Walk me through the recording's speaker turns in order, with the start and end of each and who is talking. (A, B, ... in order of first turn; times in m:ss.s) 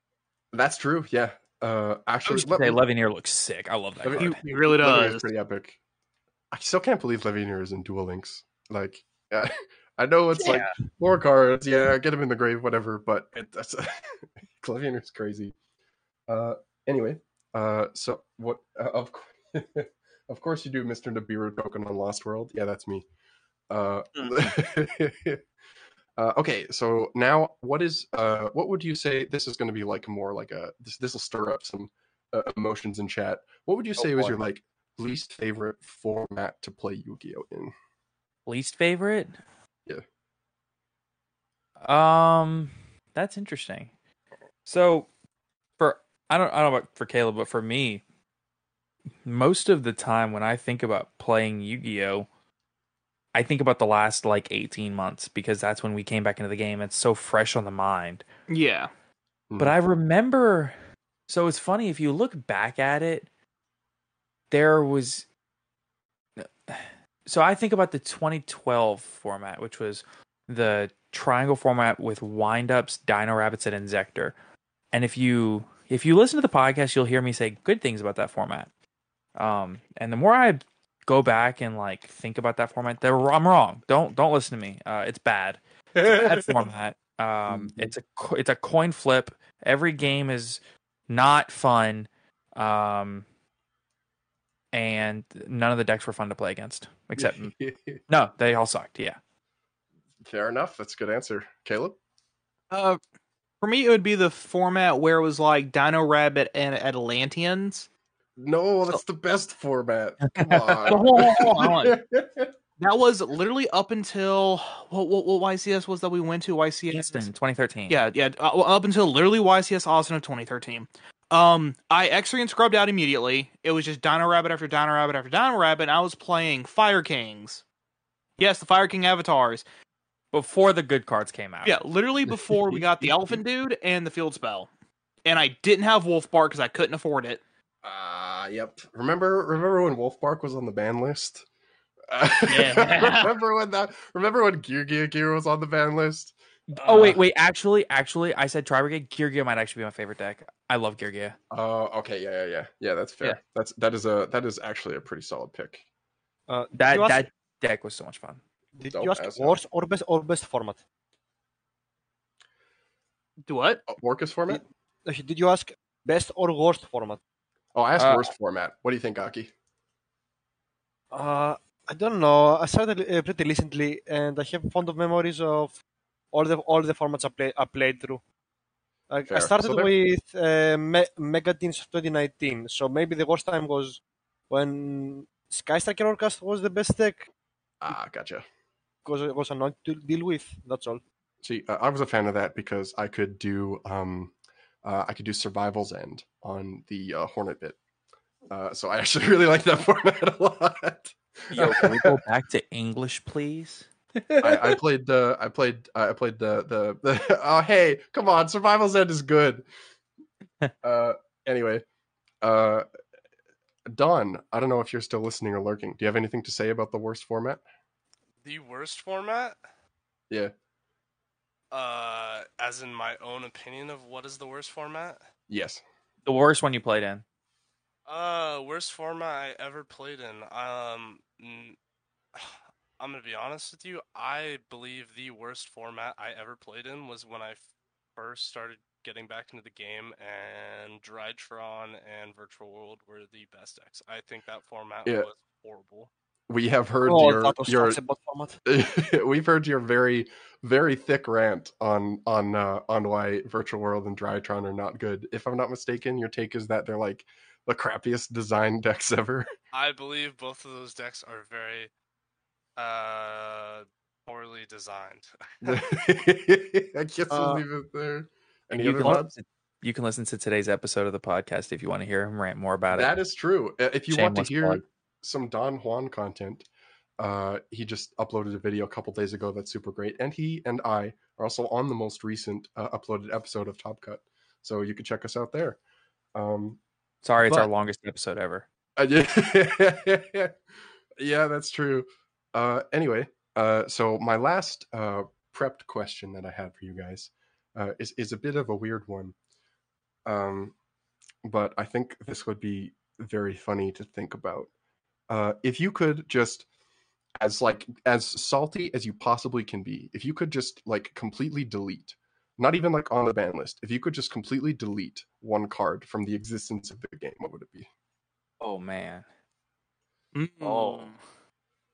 0:00.5-0:02.8 A
0:02.2-0:04.4 B
0:04.0-0:05.8 A
0:04.2-0:05.3 C
0:06.5-0:15.5 A
0:16.3-0:23.0 A
0:23.7-0:25.4 A
0:26.2-0:37.7 A
0:34.0-0:34.4 B
0:38.5-0:39.4 B
0:41.8-0:43.9 B
0:44.6-0:45.1 B
0:45.8-0:48.0 B
0:49.2-0:52.3 B
0:53.3-0:58.2 B
0:58.5-0:58.9 C
0:59.5-0:59.8 A
0:59.6-1:00.8 B
1:01.3-1:03.3 B
1:04.5-1:05.2 B
1:06.4-1:14.3 B
1:14.9-1:18.7 B
1:19.4-1:33.2 B
1:26.0-1:26.6 A
1:27.5-1:27.9 A
1:34.7-1:37.5 B
1:37.2-1:38.0 A
1:38.1-1:39.2 B
1:40.2-1:42.0 A
1:42.7-1:43.0 C
1:43.6-1:47.9 C
1:48.4-1:52.5 A
1:50.3-1:50.9 B
1:50.9-1:51.9 C
1:52.8-1:57.3 C
1:56.9-1:58.0 B
1:57.9-2:07.6 C
2:08.4-2:09.6 C
2:10.3-2:11.8 B
2:11.6-2:14.7 C
2:15.2-2:17.4 C
2:17.8-2:21.4 A
2:22.1-2:27.2 A
2:22.5-2:23.3 C
2:26.7-2:31.4 B
2:31.5-2:35.8 A
2:36.5-2:37.2 D
2:36.7-2:38.4 B
2:38.7-2:40.8 D
2:38.9-2:39.6 A
2:43.4-2:43.8 C
2:43.9-2:44.6 A
2:45.0-2:47.2 D
2:47.7-2:49.5 A
2:48.0-2:48.3 B
2:51.1-2:55.8 D
2:56.3-2:58.2 D
2:59.1-3:07.3 D
2:59.3-2:59.9 A
3:07.8-3:08.4 A
3:09.0-3:11.0 D
3:11.4-3:14.3 A
3:14.8-3:17.8 A
3:18.5-3:22.2 A
3:21.5-3:23.9 B
3:24.4-3:29.6 A
3:30.8-3:31.8 A
3:32.4-3:32.8 A
3:33.9-3:37.6 A
3:38.4-3:39.6 E
3:41.7-3:45.2 E
3:45.5-3:45.8 A
3:46.2-3:47.2 B
3:48.1-3:51.8 E
3:52.3-4:06.1 E
4:06.5-4:08.0 A
4:07.0-4:08.6 D
4:08.6-4:19.5 A
4:19.7-4:21.9 E
4:22.8-4:25.8 E
4:25.6-4:29.3 A
4:27.3-4:27.6 D
4:28.7-4:33.1 B
4:32.9-4:36.7 A
4:34.1-4:34.8 B
4:37.2-4:45.8 A
4:46.3-4:46.8 A
4:47.2-4:48.6 B
4:49.0-4:50.5 A
4:51.2-4:59.3 A
5:00.2-5:00.7 A
5:01.4-5:04.7 A
5:05.3-5:06.6 A
5:07.4-5:17.9 A
5:18.6-5:19.2 B
5:20.3-5:21.1 C
5:20.6-5:21.1 B